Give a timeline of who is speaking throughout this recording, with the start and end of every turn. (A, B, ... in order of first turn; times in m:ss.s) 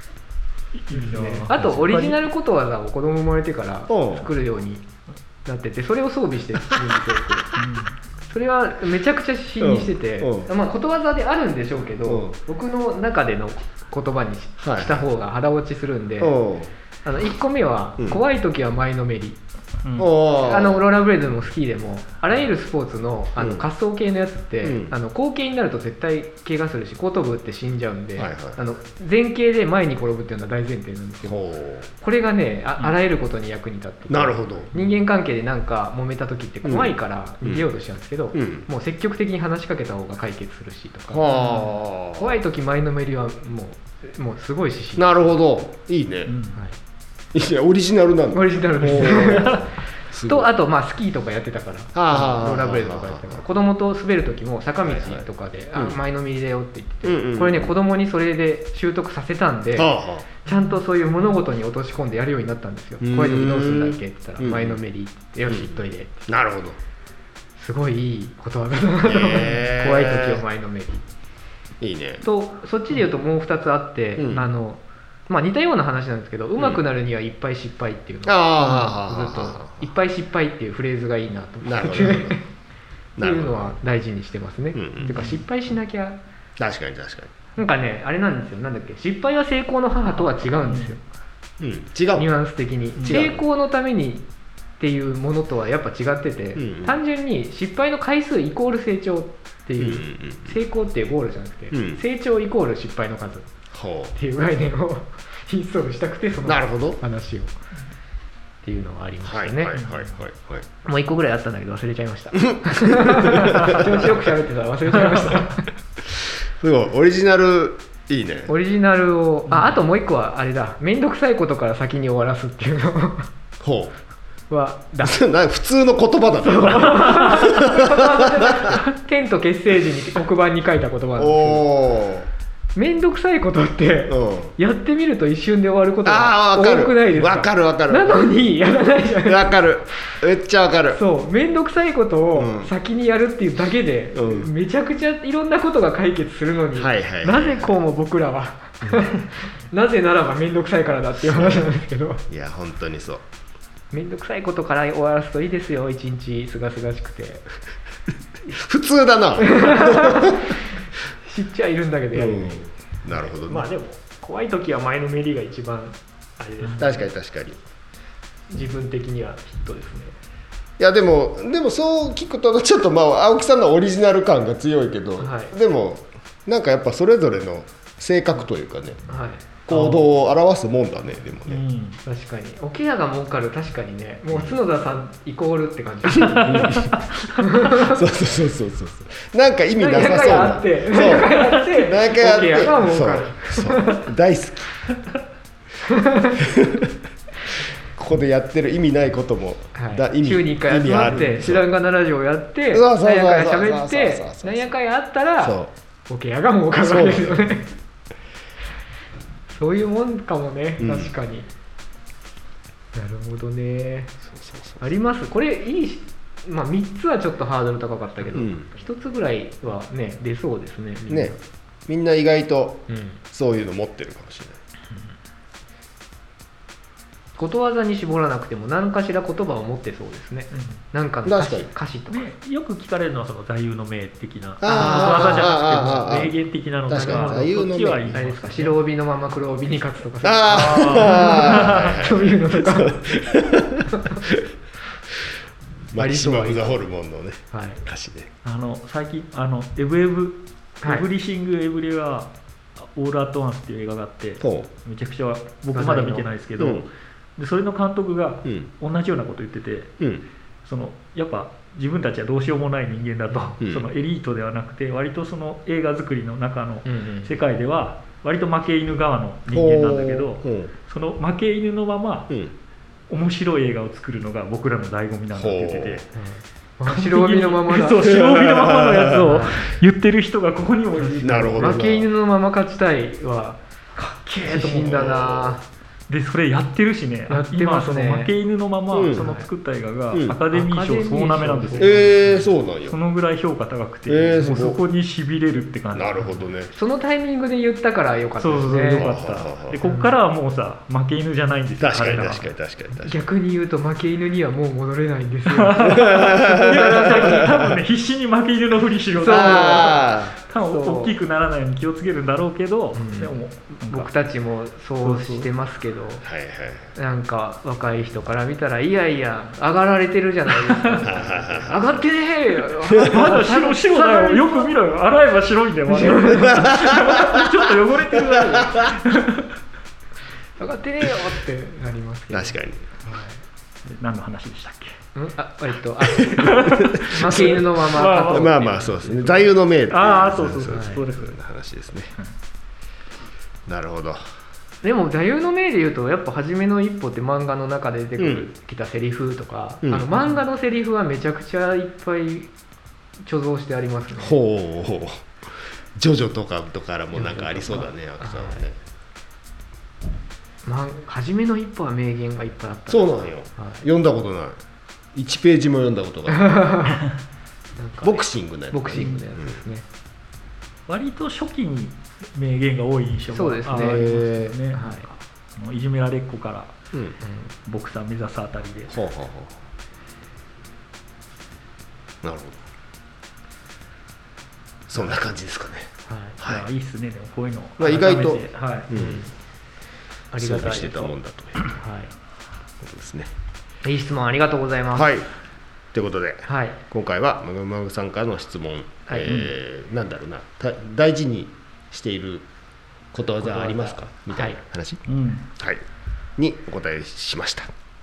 0:00.8-0:02.3 A
0:00.9-0:04.8 B
0:03.9-0:04.3 C
0:05.4-0:07.5 B
0:07.6-0:07.9 A
0:08.3-0:16.4 B
0:09.6-0:10.5 C
0:12.0-0:12.4 C
0:14.6-0:15.0 C
0:16.2-0:16.7 C
0:17.0-0:19.4 B
0:19.8-0:20.1 A
0:20.0-0:20.9 C
0:20.3-0:31.4 B
0:23.4-0:23.7 C
0:24.6-0:24.9 C
0:28.2-0:28.6 C
0:31.2-0:31.9 C
0:32.0-0:45.3 B
0:34.1-0:34.7 C
0:36.6-0:37.7 C
0:38.3-0:38.7 C
0:41.1-0:42.3 C
0:41.4-0:41.7 A
0:45.0-0:46.3 C
0:46.3-0:46.6 A
0:47.3-0:50.5 C
0:48.3-0:49.7 B
0:49.0-0:49.6 A
0:50.2-1:06.3 B
0:52.0-0:53.4 C
0:54.8-0:56.0 C
0:57.0-0:57.8 C
0:59.8-1:00.3 C
1:03.0-1:04.8 C
1:05.5-1:06.8 C
1:07.6-1:11.0 B
1:09.0-1:10.4 C
1:11.8-1:12.2 C
1:12.2-1:22.4 B
1:14.2-1:14.5 C
1:18.2-1:19.9 C
1:21.6-1:22.4 C
1:23.2-1:23.7 C
1:23.2-1:26.2 B
1:24.7-1:25.1 C
1:25.0-1:25.4 A
1:26.6-1:27.3 C
1:27.6-1:31.0 B
1:30.1-1:31.0 A
1:31.6-1:32.3 C
1:32.2-1:34.3 B
1:33.0-1:33.3 A
1:33.0-1:33.4 C
1:34.8-1:43.5 B
1:36.6-1:37.0 C
1:39.8-1:40.6 C
1:41.7-1:42.0 C
1:43.7-1:44.2 C
1:44.2-1:47.5 B
1:46.4-1:47.0 C
1:48.6-1:49.8 B
1:49.3-1:50.7 C
1:49.8-1:50.1 A
1:50.8-1:55.7 B
1:52.6-1:54.1 C
1:54.9-1:55.4 A
1:56.2-1:58.5 C
1:58.5-2:03.3 B
1:59.5-1:59.8 A
2:03.6-2:03.9 C
2:04.5-2:05.2 B
2:05.0-2:08.2 C
2:06.4-2:11.7 B
2:11.2-2:12.3 C
2:12.8-2:19.5 B
2:14.1-2:14.5 C
2:16.0-2:18.4 C
2:19.2-2:21.0 C
2:20.9-2:32.2 B
2:22.4-2:22.7 C
2:24.2-2:24.5 C
2:26.8-2:27.8 C
2:31.2-2:31.7 C
2:32.3-2:33.2 C
2:33.9-2:37.4 B
2:38.5-2:40.5 C
2:39.4-2:40.6 B
2:41.2-2:47.1 B
2:42.1-2:43.7 C
2:46.6-2:47.0 A
2:46.8-2:47.6 C
2:48.5-2:50.2 B
2:50.8-2:59.0 C
2:55.2-2:55.5 B
2:59.1-2:59.4 B
2:59.7-3:01.6 C
2:59.7-3:00.1 A
3:01.5-3:02.0 A
3:02.0-3:08.0 B
3:04.3-3:04.6 C
3:06.1-3:07.0 C
3:06.4-3:07.4 A
3:07.7-3:14.8 C
3:09.8-3:14.0 B
3:11.3-3:11.6 A
3:15.9-3:16.4 B
3:16.4-3:16.9 C
3:17.9-3:21.7 C
3:19.8-3:27.7 B
3:22.7-3:24.7 C
3:25.4-3:25.7 C
3:26.8-3:27.5 C
3:29.5-3:31.5 B
3:30.8-3:31.2 C
3:32.9-3:34.1 B
3:34.3-3:34.8 C
3:34.8-3:41.4 B
3:38.3-3:38.7 C
3:41.1-3:41.4 C
3:41.9-3:44.6 C
3:42.9-3:43.2 B
3:47.4-3:52.3 B
3:50.5-3:50.8 A
3:51.3-3:51.7 C
3:52.1-3:58.8 A
3:54.6-3:58.1 C
3:54.6-3:56.3 B
3:57.0-3:57.5 B
3:58.1-4:03.2 B
4:00.2-4:04.4 C
4:00.5-4:02.0 A
4:03.9-4:04.2 B
4:05.9-4:08.3 C
4:06.0-4:06.8 B
4:07.5-4:07.8 B
4:08.4-4:20.0 A
4:14.4-4:14.7 C
4:15.7-4:16.3 B
4:16.6-4:16.9 C
4:20.6-4:32.3 A
4:23.6-4:23.9 C
4:26.8-4:27.3 B
4:29.5-4:30.7 C
4:33.1-4:36.1 A
4:35.3-4:36.0 C
4:36.2-4:38.1 B
4:36.9-4:41.8 A
4:38.0-4:39.2 C
4:39.2-4:39.7 B
4:41.0-4:43.6 B
4:41.2-4:42.1 C
4:44.0-4:45.0 A
4:44.4-4:45.6 B
4:44.7-4:45.6 C
4:46.1-4:56.4 A
4:47.3-4:48.3 B
4:48.9-4:49.3 C
4:49.2-4:49.5 B
4:50.1-4:50.4 C
4:50.5-4:52.2 B
4:51.8-4:53.0 C
4:54.1-4:54.8 C
4:55.9-4:56.7 C
4:56.7-4:59.2 B
4:58.4-5:02.5 A
4:59.0-4:59.8 C
4:59.8-5:00.2 B
5:01.8-5:03.2 C
5:02.9-5:07.4 B
5:05.5-5:14.1 A
5:05.8-5:07.8 C
5:09.2-5:10.1 B
5:09.3-5:10.4 C
5:10.7-5:11.2 B
5:13.0-5:16.3 B
5:15.0-5:15.5 A
5:16.2-5:16.9 C
5:17.0-5:21.2 B
5:21.0-5:21.7 A
5:21.0-5:22.0 C
5:21.7-5:24.8 B
5:23.0-5:23.3 C
5:23.0-5:29.5 A
5:25.9-5:26.7 B
5:26.4-5:27.6 C
5:28.1-5:29.0 C
5:30.6-5:33.3 B
5:32.3-5:32.9 C
5:33.8-5:34.9 A
5:35.2-5:39.4 B
5:36.1-5:42.1 C
5:36.2-5:41.4 A
5:40.7-5:41.0 B
5:43.7-5:44.2 C
5:44.8-5:52.5 B
5:48.2-5:48.5 C
5:49.8-5:50.1 C
5:53.2-5:54.4 B
5:54.2-5:55.3 C
5:56.0-5:58.8 C
5:57.1-5:58.6 B
6:00.6-6:03.8 B
6:02.9-6:04.6 C
6:05.1-6:06.8 C
6:06.4-6:07.0 B
6:07.8-6:09.8 B
6:08.0-6:09.6 C
6:10.9-6:16.7 A
6:13.3-6:14.1 B
6:13.7-6:14.6 C
6:14.7-6:15.1 B
6:16.9-6:17.2 C
6:17.2-6:17.5 B
6:17.7-6:19.0 A
6:18.9-6:19.6 C
6:22.2-6:22.6 C
6:24.9-6:26.7 C
6:26.1-6:26.4 B
6:26.4-6:28.9 A
6:27.8-6:29.2 C
6:28.9-6:29.3 B
6:30.3-6:31.2 B
6:30.4-6:31.6 C
6:31.7-6:32.1 B
6:32.8-6:33.3 C
6:33.8-6:35.1 B
6:34.9-6:35.3 C
6:35.9-6:42.5 C
6:36.5-6:36.8 B
6:39.1-6:39.3 B
6:39.3-6:39.5 A
6:43.1-6:45.0 C
6:43.4-6:44.6 B
6:45.1-6:45.5 A
6:46.4-6:47.7 C